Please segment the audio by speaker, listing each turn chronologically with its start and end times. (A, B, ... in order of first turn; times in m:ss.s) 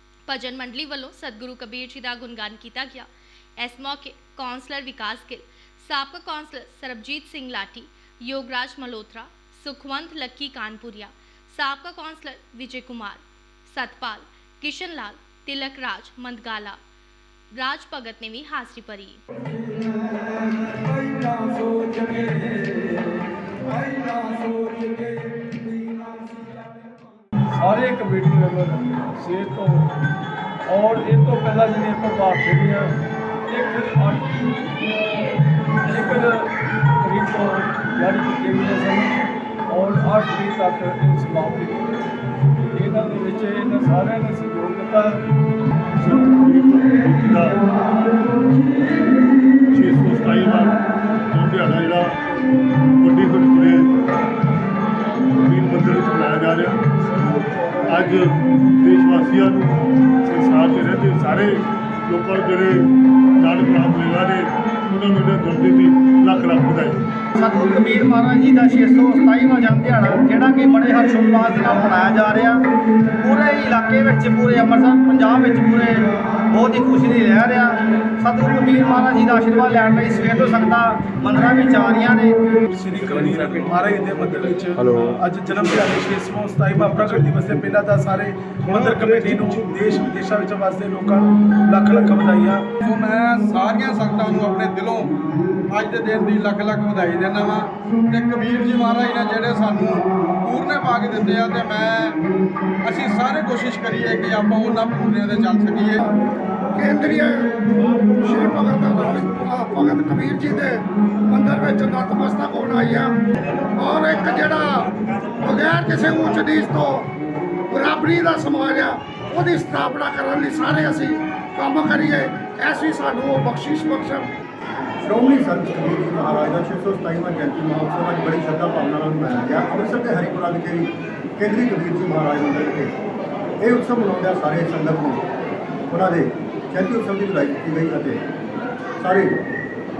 0:00.3-0:03.1 A
0:03.6-0:16.8 A
0:17.6-0:19.2 A
0:19.7-0:29.9 B
0:30.7-0:33.0 B
0:33.5-0:34.7 B
0:35.8-0:39.2 B
0:39.7-0:42.0 B
0:42.7-0:45.2 B
0:46.0-0:47.6 C
0:49.7-0:50.7 C
0:51.3-0:52.1 C
0:53.0-0:53.9 C
0:55.4-0:56.8 C
0:57.8-0:58.3 C
0:58.8-0:59.7 C
1:00.2-1:01.5 C
1:02.0-1:02.8 C
1:03.4-1:07.0 C
1:07.3-1:12.6 D
1:13.2-1:22.3 D
1:22.7-1:32.6 E
1:32.8-1:35.1 F
1:35.7-1:42.2 F
1:42.8-1:46.0 F
1:46.7-1:53.2 G
1:53.8-1:57.0 G
1:57.7-2:04.3 G
2:05.0-2:12.9 H
2:13.6-2:15.2 H
2:15.9-2:18.2 H
2:19.0-2:19.3 H